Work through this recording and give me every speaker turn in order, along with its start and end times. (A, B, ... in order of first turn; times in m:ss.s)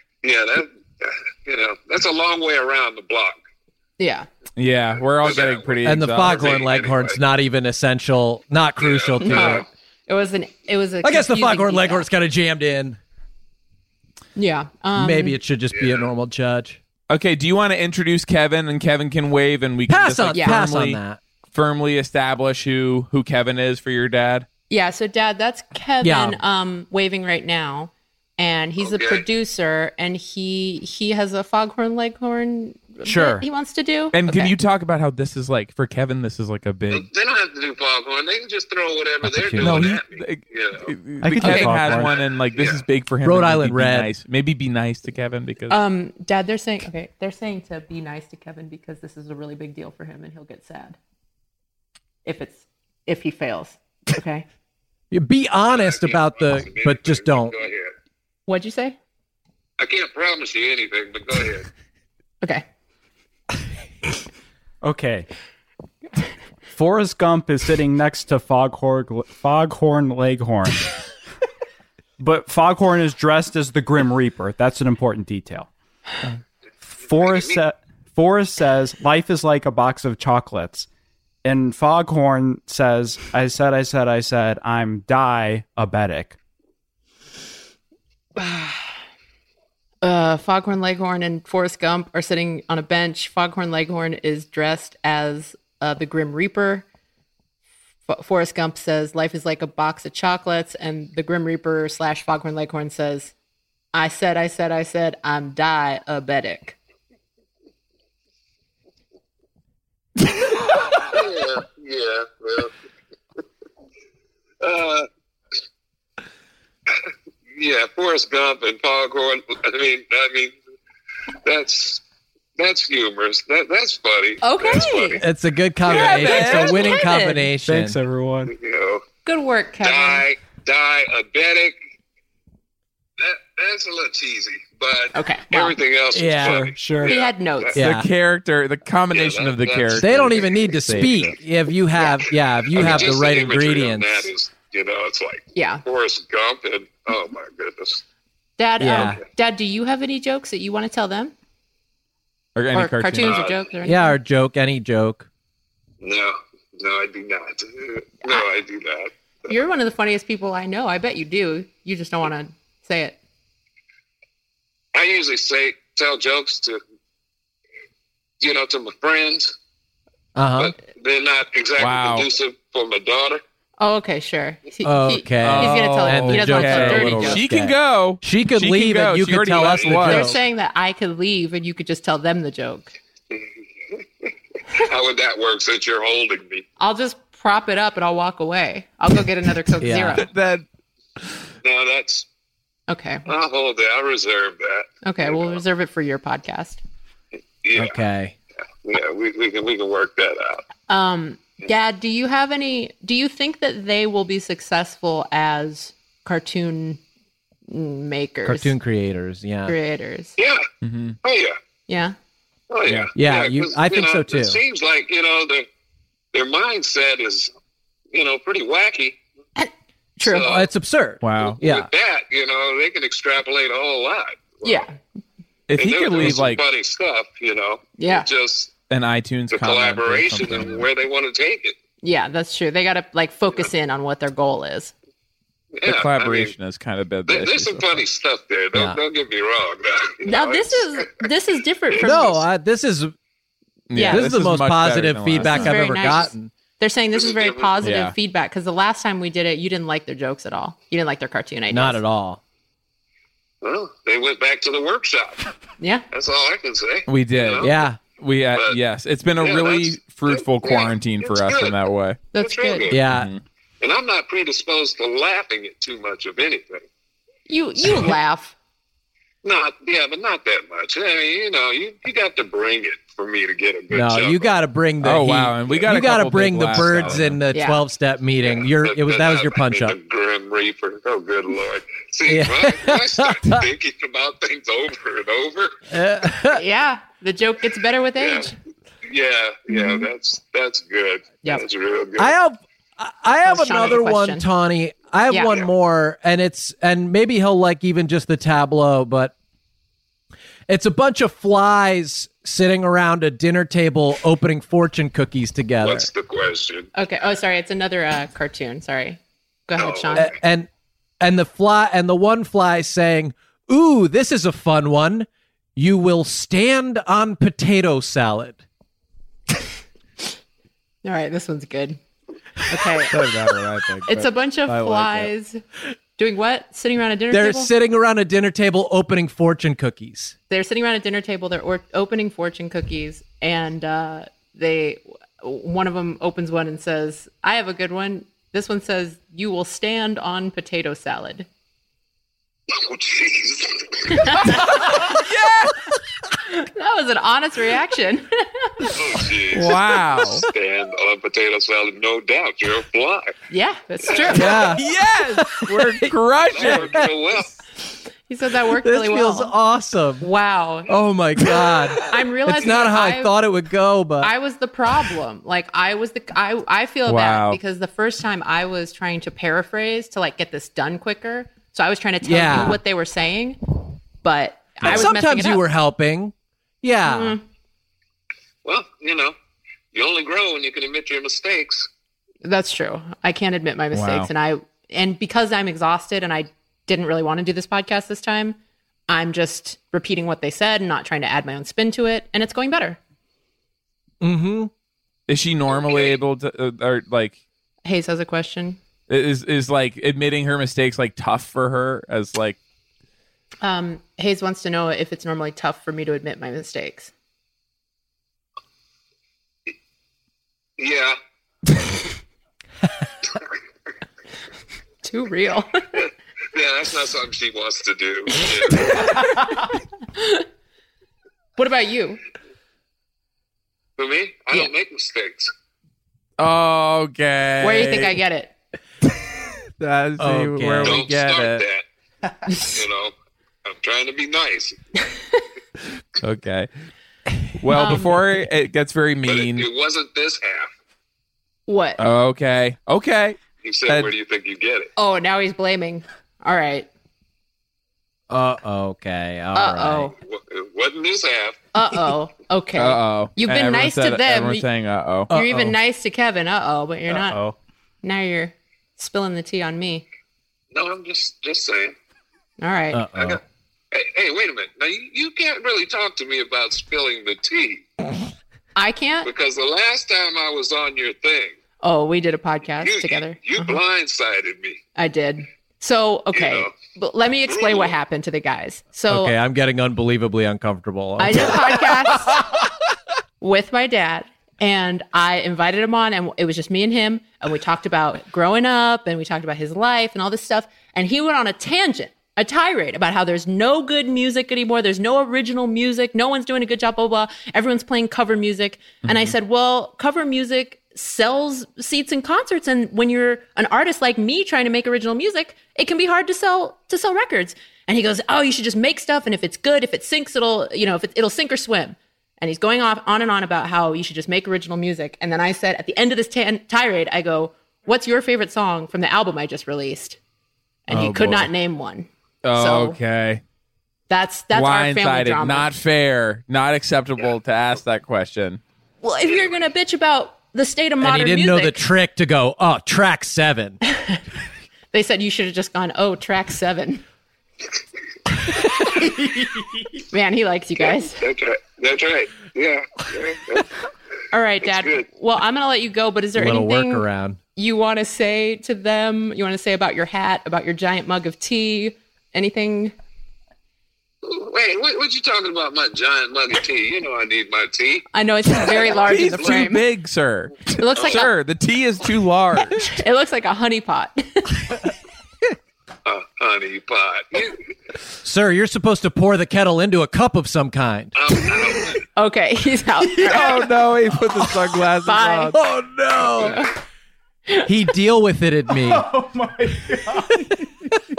0:00.2-0:03.4 A
0:04.0-0:04.3 B
0:04.6-0:06.6 C
0:05.2-0:07.2 A
0:05.8-0:09.6 D
0:08.8-0:09.7 A
0:09.2-0:12.0 B
0:11.0-0:13.0 D
0:14.4-0:15.4 B
0:14.9-0:16.8 D
0:15.7-0:16.1 A
0:17.1-0:21.0 C
0:19.9-0:21.2 D
0:20.3-0:20.6 B
0:21.5-0:24.4 C
0:24.7-0:34.5 B
0:26.0-0:26.4 D
0:28.8-0:29.2 A
0:33.0-0:33.4 D
0:34.1-0:37.0 C
0:36.9-0:40.9 A
0:39.2-0:39.9 D
0:39.6-0:45.8 C
0:41.2-0:42.2 E
0:42.5-0:42.8 A
0:43.2-0:44.1 D
0:45.7-0:51.0 B
0:52.2-0:54.4 B
0:55.1-0:57.6 D
0:55.7-0:57.9 A
0:58.5-0:59.0 B
0:59.8-1:01.7 A
1:04.8-1:05.3 E
1:06.7-1:10.9 E
1:12.2-1:15.7 E
1:16.2-1:20.9 E
1:17.1-1:17.6 A
1:21.4-1:26.4 E
1:28.4-1:28.8 B
1:30.0-1:36.8 B
1:38.1-1:43.3 B
1:43.9-1:46.8 B
1:50.9-1:52.7 A
1:54.6-1:55.1 A
1:57.5-2:00.5 A
2:01.4-2:02.0 A
2:02.6-2:05.2 A
2:04.4-2:05.2 B
2:05.2-2:08.0 D
2:05.8-2:07.0 A
2:05.9-2:07.4 B
2:07.6-2:08.5 E
2:08.4-2:09.0 A
2:09.2-2:10.2 B
2:09.8-2:11.7 A
2:13.2-2:17.8 A
2:15.1-2:15.8 B
2:16.1-2:16.7 D
2:16.4-2:17.2 E
2:17.0-2:17.8 B
2:17.7-2:18.1 D
2:17.8-2:21.3 C
2:19.1-2:21.1 A
2:19.9-2:24.3 D
2:22.7-2:28.0 A
2:25.5-2:25.8 B
2:28.6-2:31.3 B
2:28.8-2:29.2 D
2:32.6-2:33.4 C
2:32.7-2:34.2 B
2:33.2-2:33.6 A
2:33.8-2:35.3 D
2:36.0-2:39.1 A
2:39.5-2:43.2 B
2:44.9-2:46.8 A
2:48.4-2:49.5 A
2:50.3-2:50.7 D
2:50.6-2:53.4 A
2:51.8-2:52.3 C
2:53.8-2:57.4 B
2:54.8-3:00.4 D
2:55.4-3:00.3 C
3:00.0-3:02.9 B
3:03.3-3:06.6 A
3:06.8-3:10.3 B
3:09.8-3:10.2 D
3:10.1-3:10.6 C
3:11.6-3:12.3 A
3:12.9-3:13.2 B
3:13.2-3:15.6 A
3:15.0-3:16.8 B
3:17.6-3:18.0 A
3:17.7-3:18.3 D
3:18.8-3:20.6 A
3:20.9-3:27.0 B
3:27.7-3:28.7 B
3:28.4-3:29.7 D
3:29.7-3:30.4 B
3:30.4-3:30.6 A
3:30.8-3:31.2 C
3:31.2-3:31.6 A
3:31.9-3:32.2 B
3:32.7-3:35.6 A
3:33.1-3:34.6 D
3:36.3-3:37.5 A
3:38.1-3:39.2 A
3:39.6-3:40.5 B
3:40.2-3:40.6 A
3:40.4-3:41.9 D
3:41.2-3:41.6 C
3:41.4-3:44.8 A
3:44.6-3:44.9 B
3:45.7-3:46.6 C
3:45.8-3:48.7 A
3:48.0-3:48.3 B
3:48.9-3:50.8 C
3:49.5-3:51.8 A
3:52.0-3:54.9 B
3:55.7-3:56.5 A
3:55.8-3:58.0 C
3:57.3-4:01.1 A
3:58.7-3:59.0 D
4:00.2-4:02.4 B
4:01.9-4:02.3 A
4:02.0-4:03.1 D
4:03.9-4:05.8 C
4:03.9-4:04.3 B
4:04.0-4:06.5 D
4:05.4-4:12.0 B
4:07.1-4:07.8 A
4:07.8-4:08.1 C
4:11.7-4:12.4 D
4:13.6-4:15.5 A
4:15.8-4:16.0 B
4:16.1-4:17.7 A
4:17.1-4:22.2 C
4:17.6-4:18.0 D
4:18.5-4:18.8 A
4:19.4-4:21.8 A
4:22.3-4:22.9 B
4:22.4-4:23.0 A
4:22.9-4:23.3 D
4:23.1-4:23.4 C
4:23.8-4:26.8 A
4:27.5-4:28.5 B
4:29.4-4:34.5 A
4:33.9-4:40.0 D
4:35.0-4:37.4 C
4:37.5-4:37.8 B
4:38.5-4:45.7 A
4:42.2-4:43.6 D
4:45.9-4:46.6 D
4:46.5-4:48.5 B
4:48.2-4:48.5 A
4:49.0-4:52.3 A
4:49.7-4:50.0 B
4:52.2-4:59.3 D
4:53.4-4:54.4 B
4:55.3-4:55.6 B
5:00.7-5:06.1 D
5:05.8-5:06.9 A
5:06.9-5:10.3 B
5:09.8-5:10.3 A
5:10.1-5:10.7 D
5:11.2-5:18.6 D
5:21.0-5:22.0 B
5:22.6-5:23.2 B
5:23.1-5:25.3 C
5:24.1-5:25.6 B
5:26.2-5:27.7 B
5:27.3-5:30.3 D
5:30.5-5:41.5 B
5:42.7-5:44.4 A
5:44.1-5:45.2 B
5:44.4-5:45.9 C
5:46.5-5:48.9 B
5:48.9-5:49.8 A
5:49.5-5:50.5 C
5:50.4-5:53.3 A
5:53.5-5:54.7 B
5:54.3-5:57.1 D
5:54.4-5:56.9 C
5:56.5-5:57.5 A
5:58.3-5:59.5 B
5:58.8-6:00.2 D
6:00.2-6:00.9 B
6:00.9-6:04.3 D
6:02.0-6:03.3 B
6:04.2-6:13.6 B
6:07.0-6:07.6 C
6:12.2-6:12.8 D
6:14.2-6:15.6 B
6:14.8-6:17.4 D
6:17.1-6:17.4 B
6:18.6-6:19.3 A
6:19.9-6:21.9 A
6:22.4-6:28.6 B
6:23.9-6:24.3 C
6:29.1-6:33.0 B
6:34.2-6:34.7 D
6:35.3-6:37.4 C
6:35.7-6:36.2 A
6:37.8-6:38.8 B
6:39.1-6:42.6 C
6:43.6-6:47.1 B
6:50.8-6:51.1 A
6:55.0-6:55.8 B
6:56.5-6:59.4 A
6:59.0-7:00.4 B
7:01.6-7:02.2 B
7:04.0-7:05.5 A
7:06.4-7:08.1 C
7:07.6-7:08.5 B
7:09.8-7:11.6 C
7:10.2-7:11.0 D
7:10.8-7:11.8 A
7:12.5-7:13.1 A
7:13.6-7:14.8 A
7:16.2-7:16.7 C
7:17.5-7:19.7 C
7:17.7-7:18.3 B
7:19.2-7:20.7 A
7:21.7-7:22.0 B
7:22.0-7:24.1 C
7:23.6-7:24.9 A
7:25.0-7:26.9 B
7:28.3-7:30.1 D
7:29.5-7:30.1 B
7:30.2-7:31.6 A
7:31.7-7:34.6 B
7:32.8-7:35.3 C
7:35.3-7:35.8 D
7:35.3-7:37.4 B
7:38.0-7:40.0 B
7:40.7-7:41.9 A
7:42.6-7:43.0 B
7:42.9-7:43.4 D
7:43.2-7:43.4 A
7:43.9-7:47.9 A
7:48.8-7:49.3 B
7:49.2-7:51.6 A
7:51.8-7:53.4 B
7:52.8-7:54.8 A
7:55.0-7:59.3 B
7:56.3-7:56.7 A
7:57.5-7:57.9 A
7:59.1-8:02.1 D
8:01.2-8:02.4 B
8:03.4-8:40.2 B
8:19.1-8:19.3 C
8:40.9-8:43.0 B
8:40.9-8:41.5 C
8:42.4-8:43.4 C
8:44.1-8:45.7 B
8:44.5-8:48.6 C
8:49.0-8:51.8 B
8:51.0-8:53.8 D
8:53.9-8:54.2 B
8:54.9-8:57.0 B
8:58.5-8:59.2 B
9:00.1-9:01.2 B
9:00.8-9:03.7 A
9:04.3-9:12.9 B
9:04.6-9:05.0 A
9:06.4-9:07.4 D
9:14.2-9:18.0 A
9:18.1-9:19.8 B
9:19.0-9:19.6 A
9:19.0-9:22.8 C
9:20.8-9:21.3 B
9:22.8-9:24.7 B
9:26.0-9:27.6 A
9:28.2-9:31.1 D
9:31.2-9:32.0 A
9:32.1-9:33.6 B
9:33.2-9:35.6 C
9:35.0-9:35.6 B
9:35.6-9:36.6 D
9:36.4-9:36.7 B
9:37.6-9:39.1 D